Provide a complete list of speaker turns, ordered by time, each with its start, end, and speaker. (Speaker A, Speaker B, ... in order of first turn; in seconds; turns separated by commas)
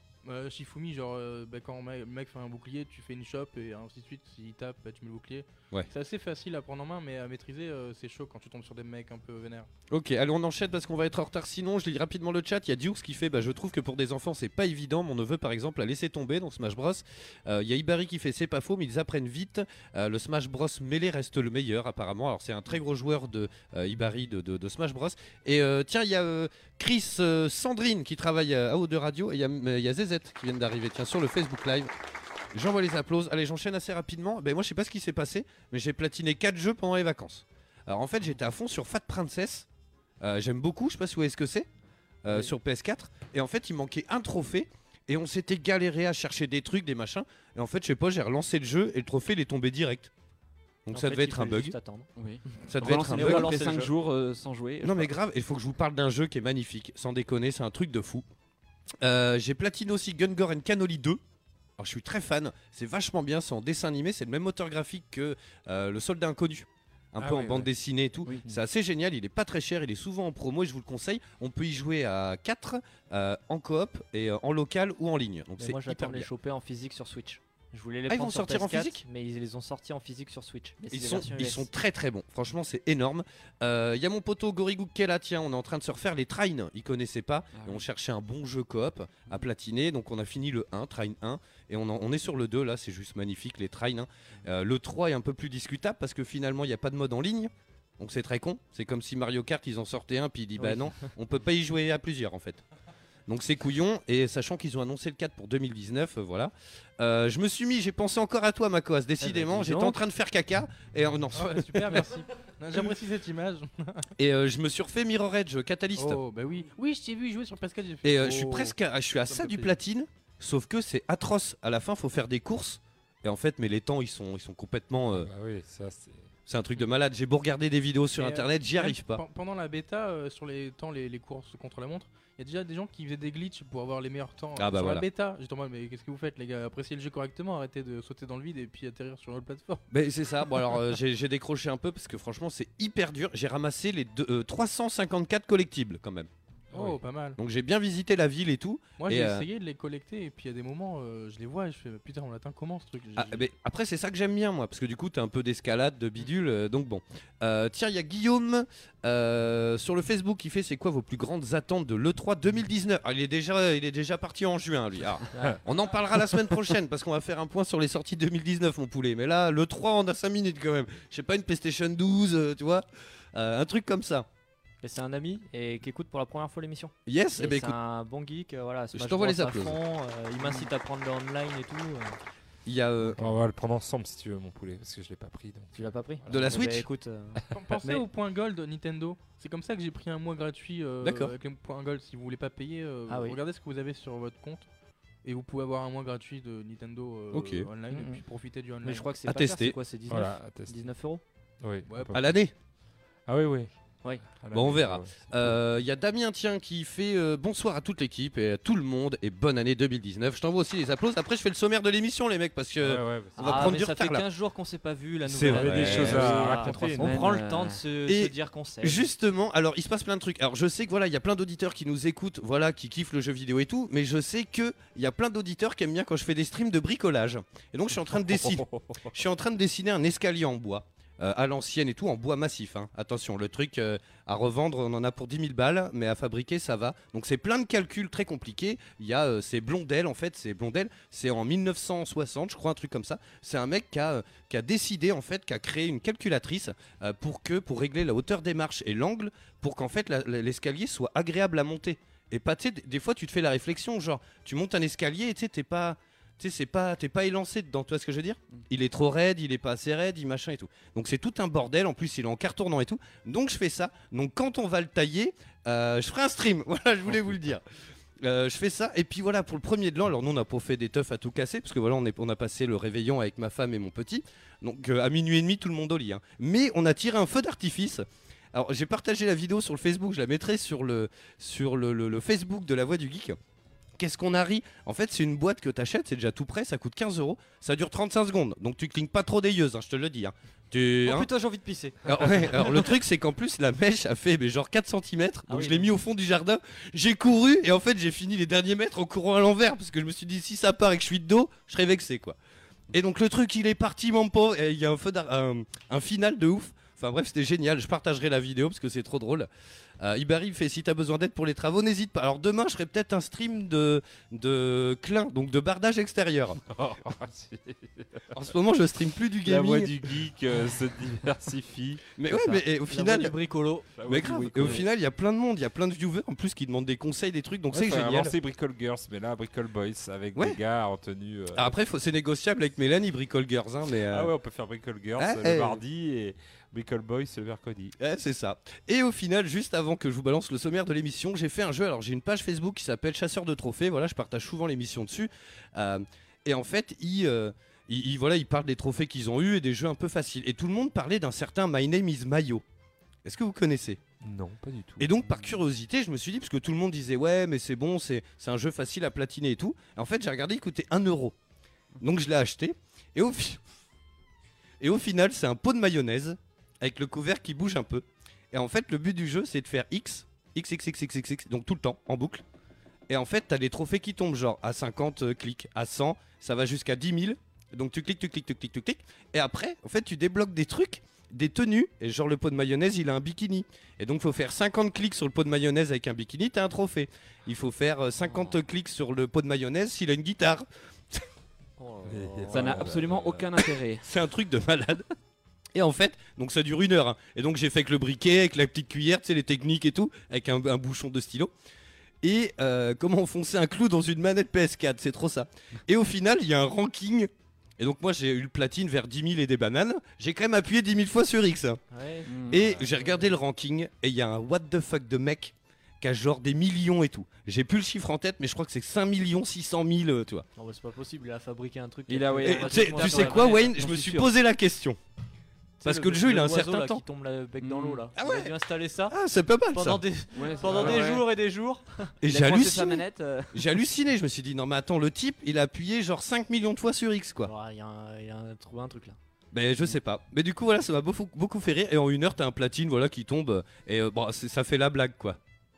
Speaker A: 0.2-9.7, Speaker B: 9.9-31.9, Speaker B: 32.5-39.7, Speaker B: 40.2-41.7, Speaker B: 42.2-50.1, Speaker B: 50.9-51.7, Speaker C: 50.9-52.1, Speaker D: 52.2-55.1, Speaker B: 52.7-53.6, Speaker C: 52.8-53.9, Speaker B: 54.8-58.2, Speaker B: 59.0-61.2, Speaker B: 61.8-76.3, Speaker E: 67.2-67.7, Speaker C: 75.6-81.7, Speaker B: 78.1-79.0, Speaker B: 80.9-102.6, Speaker D: 87.5-87.8, Speaker C: 100.6-101.1, Speaker B: 103.3-112.1, Speaker C: 109.2-110.0, Speaker A: 111.3-114.1, Speaker B: 114.2-116.2, Speaker A: 115.9-118.7, Speaker B: 118.0-125.3, Speaker A: 119.3-119.7, Speaker E: 125.1-126.3, Speaker B: 126.5-129.2, Speaker A: 128.2-139.8, Speaker B: 134.6-135.1, Speaker B: 139.9-146.3, Speaker A: 146.7-147.4, Speaker B: 147.4-149.4, Speaker A: 149.0-153.5, Speaker B: 153.2-174.3, Speaker C: 174.8-182.2, Speaker B: 177.1-177.8, Speaker B: 178.9-179.8, Speaker B: 182.7-183.2, Speaker E: 183.2-186.6, Speaker C: 185.7-188.1, Speaker B: 186.3-186.9, Speaker A: 187.5-194.7, Speaker B: 191.0-191.3, Speaker C: 193.1-193.4, Speaker A: 195.2-199.1, Speaker B: 197.3-197.7, Speaker C: 197.9-198.2, Speaker C: 198.8-201.2, Speaker B: 199.2-199.8, Speaker E: 200.1-200.9, Speaker E: 201.6-202.3, Speaker A: 201.9-202.1, Speaker B: 202.1-202.5, Speaker E: 203.3-203.7, Speaker E: 204.4-205.6, Speaker B: 204.5-214.2, Speaker E: 212.8-213.7, Speaker C: 213.4-219.1, Speaker B: 215.2-216.4, Speaker E: 215.4-217.2, Speaker D: 216.1-217.8, Speaker B: 218.1-267.6, Speaker B: 268.2-283.4, Speaker B: 284.0-291.3, Speaker C: 291.0-292.8, Speaker B: 292.1-302.4, Speaker C: 295.5-295.9, Speaker B: 302.9-309.5, Speaker B: 310.0-316.6, Speaker E: 316.7-318.2, Speaker B: 318.3-319.9, Speaker E: 319.4-322.1, Speaker B: 322.1-323.4, Speaker C: 322.9-324.4, Speaker E: 324.0-324.8, Speaker B: 324.1-328.3, Speaker D: 324.3-324.8, Speaker E: 327.7-331.7, Speaker B: 331.6-334.3, Speaker E: 334.1-337.9, Speaker B: 335.2-335.8, Speaker B: 338.0-352.6, Speaker B: 353.2-354.0, Speaker E: 354.2-355.1, Speaker B: 355.0-361.4, Speaker D: 355.2-355.6, Speaker B: 362.0-363.6, Speaker B: 364.8-372.4, Speaker B: 373.1-391.2, Speaker C: 391.8-392.6, Speaker E: 392.1-393.4, Speaker D: 392.5-394.0, Speaker B: 392.6-393.2, Speaker B: 394.0-395.1, Speaker B: 395.7-401.5, Speaker B: 402.2-411.8, Speaker C: 411.9-413.2, Speaker D: 412.3-412.6, Speaker B: 412.5-420.4, Speaker C: 420.6-423.7, Speaker D: 422.1-424.3, Speaker B: 422.4-425.0, Speaker C: 425.8-429.1, Speaker B: 425.8-427.0, Speaker D: 427.6-428.1, Speaker B: 428.1-428.5, Speaker B: 429.1-430.0, Speaker C: 429.7-432.1, Speaker D: 430.4-431.2, Speaker B: 430.6-431.0, Speaker B: 432.2-437.5, Speaker D: 432.2-433.7, Speaker C: 437.4-439.2, Speaker B: 439.5-445.4